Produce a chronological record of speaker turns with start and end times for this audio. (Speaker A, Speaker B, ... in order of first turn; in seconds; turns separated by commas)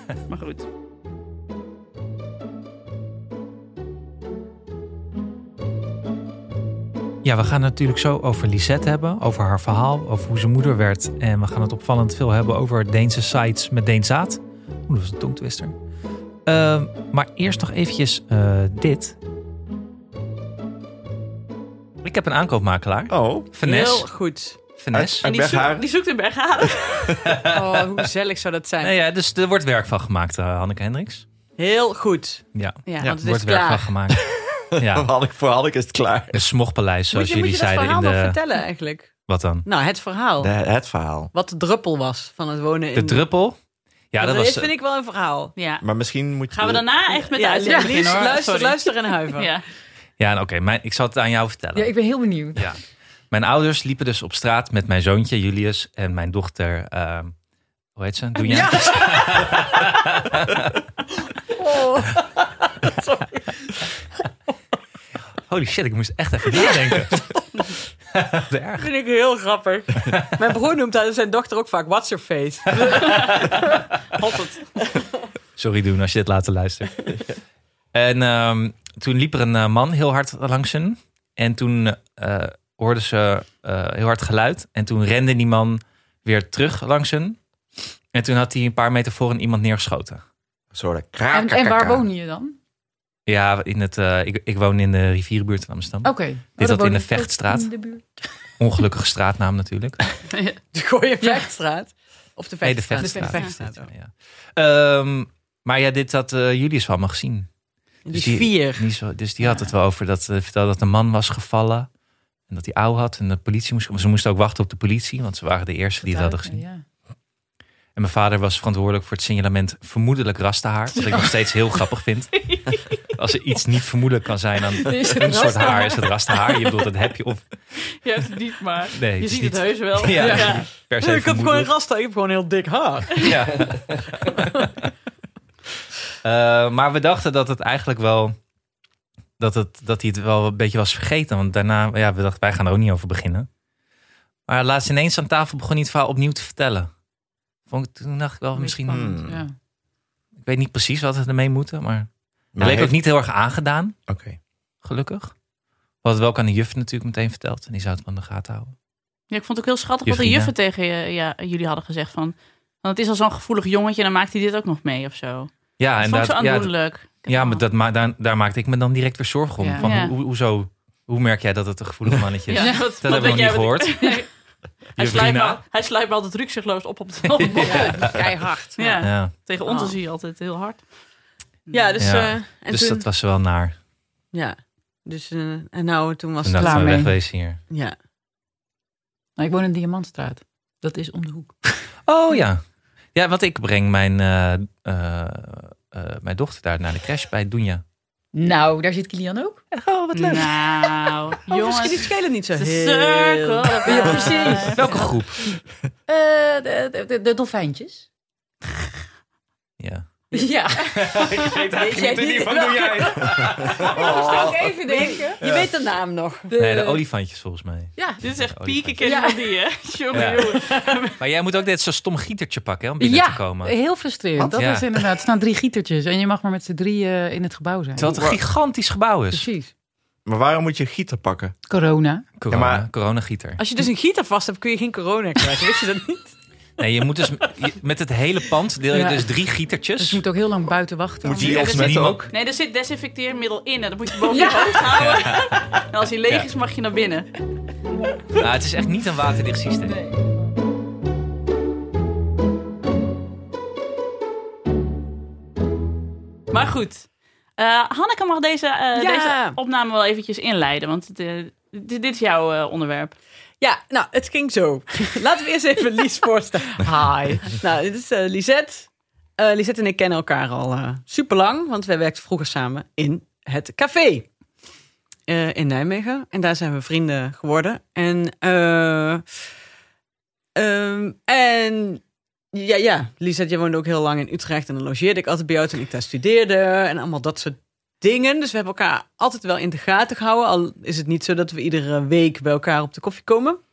Speaker A: 0.3-0.7, Speaker B: 7.2-15.8, Speaker B: 16.4-19.2, Speaker B: 22.0-25.2, Speaker C: 23.1-23.5, Speaker D: 23.6-24.6, Speaker C: 24.9-25.9, Speaker A: 25.2-27.2, Speaker D: 27.5-28.9, Speaker B: 28.8-31.3, Speaker D: 31.6-34.5, Speaker B: 32.5-35.1, Speaker A: 32.9-33.1, Speaker C: 34.8-36.5, Speaker B: 36.3-38.4, Speaker D: 37.1-40.6, Speaker B: 39.2-39.7, Speaker C: 40.4-41.3, Speaker D: 41.3-43.4, Speaker B: 42.9-44.7, Speaker D: 44.2-45.5, Speaker A: 45.6-45.9, Speaker C: 45.8-46.9, Speaker A: 46.4-49.6, Speaker D: 47.2-49.5, Speaker E: 47.7-48.2, Speaker B: 50.2-57.4, Speaker E: 51.8-52.7, Speaker B: 58.0-59.8, Speaker E: 58.5-59.4, Speaker D: 58.5-59.4, Speaker D: 61.6-63.7, Speaker B: 65.5-67.5, Speaker D: 66.6-67.4, Speaker B: 68.1-68.9, Speaker D: 68.8-73.5, Speaker A: 72.9-73.4, Speaker A: 74.1-74.8, Speaker B: 75.6-77.3, Speaker B: 77.9-87.5, Speaker B: 88.1-90.2, Speaker C: 90.7-92.0, Speaker E: 91.3-92.6, Speaker B: 93.3-97.8, Speaker E: 96.0-98.4, Speaker B: 98.6-100.1, Speaker A: 100.3-100.6, Speaker D: 100.7-103.9, Speaker E: 101.2-101.5, Speaker B: 102.6-111.9, Speaker E: 103.0-103.4, Speaker D: 108.0-108.9, Speaker E: 109.4-109.7, Speaker B: 112.5-116.6, Speaker E: 116.1-116.8, Speaker B: 118.0-128.0, Speaker A: 122.4-122.9, Speaker E: 124.9-126.1, Speaker A: 128.0-130.7, Speaker B: 129.0-131.7, Speaker E: 130.2-130.5, Speaker D: 131.0-133.7, Speaker B: 133.2-134.9, Speaker B: 136.2-138.4, Speaker B: 139.4-143.5, Speaker B: 144.5-147.0, Speaker B: 147.7-149.3, Speaker E: 148.6-149.5, Speaker C: 148.9-149.4, Speaker B: 150.4-154.0, Speaker C: 152.6-152.9, Speaker C: 154.1-154.4, Speaker B: 154.8-155.4, Speaker B: 156.0-158.7, Speaker A: 159.3-167.6, Speaker B: 160.1-160.5, Speaker B: 165.8-174.1, Speaker E: 169.6-169.9, Speaker A: 169.8-170.2, Speaker A: 172.5-178.1, Speaker E: 172.6-173.4, Speaker B: 174.9-175.6, Speaker B: 177.3-178.2, Speaker E: 177.6-179.0, Speaker D: 177.7-178.4, Speaker A: 178.8-181.0, Speaker B: 179.0-179.3, Speaker D: 179.7-180.0, Speaker A: 181.7-181.9, Speaker D: 181.7-183.1, Speaker B: 182.0-183.8, Speaker D: 184.3-187.1, Speaker B: 186.4-187.6, Speaker E: 186.6-187.2, Speaker D: 187.7-188.0, Speaker E: 189.4-192.4, Speaker B: 192.1-197.8, Speaker E: 198.3-199.6, Speaker B: 199.7-201.1, Speaker A: 200.1-205.1, Speaker D: 201.5-204.6, Speaker E: 203.8-208.1, Speaker B: 204.7-205.6, Speaker B: 209.8-210.2, Speaker E: 210.3-215.4, Speaker B: 210.8-213.9, Speaker D: 211.6-213.0, Speaker C: 213.8-214.7, Speaker D: 214.1-216.5, Speaker E: 216.5-217.0, Speaker B: 216.6-219.0, Speaker E: 218.0-218.2, Speaker A: 218.2-221.1, Speaker E: 219.0-219.6, Speaker B: 220.1-220.5, Speaker D: 220.6-221.0, Speaker B: 221.2-224.9, Speaker E: 223.0-228.2, Speaker C: 228.0-228.4, Speaker B: 228.0-229.5, Speaker E: 229.3-229.7, Speaker C: 230.2-231.6, Speaker E: 231.7-232.3, Speaker B: 232.4-233.6, Speaker C: 232.5-232.9, Speaker D: 233.6-236.4, Speaker B: 236.8-240.2, Speaker E: 238.9-239.3, Speaker E: 240.0-242.0, Speaker C: 241.2-242.3, Speaker B: 241.3-242.3, Speaker A: 242.3-247.3, Speaker E: 244.3-245.0, Speaker B: 245.0-245.6, Speaker B: 248.4-250.0, Speaker A: 256.5-263.2, Speaker D: 258.9-259.6, Speaker D: 263.6-266.9, Speaker E: 266.8-267.6, Speaker D: 267.5-274.3, Speaker D: 275.3-279.2, Speaker D: 280.6-293.6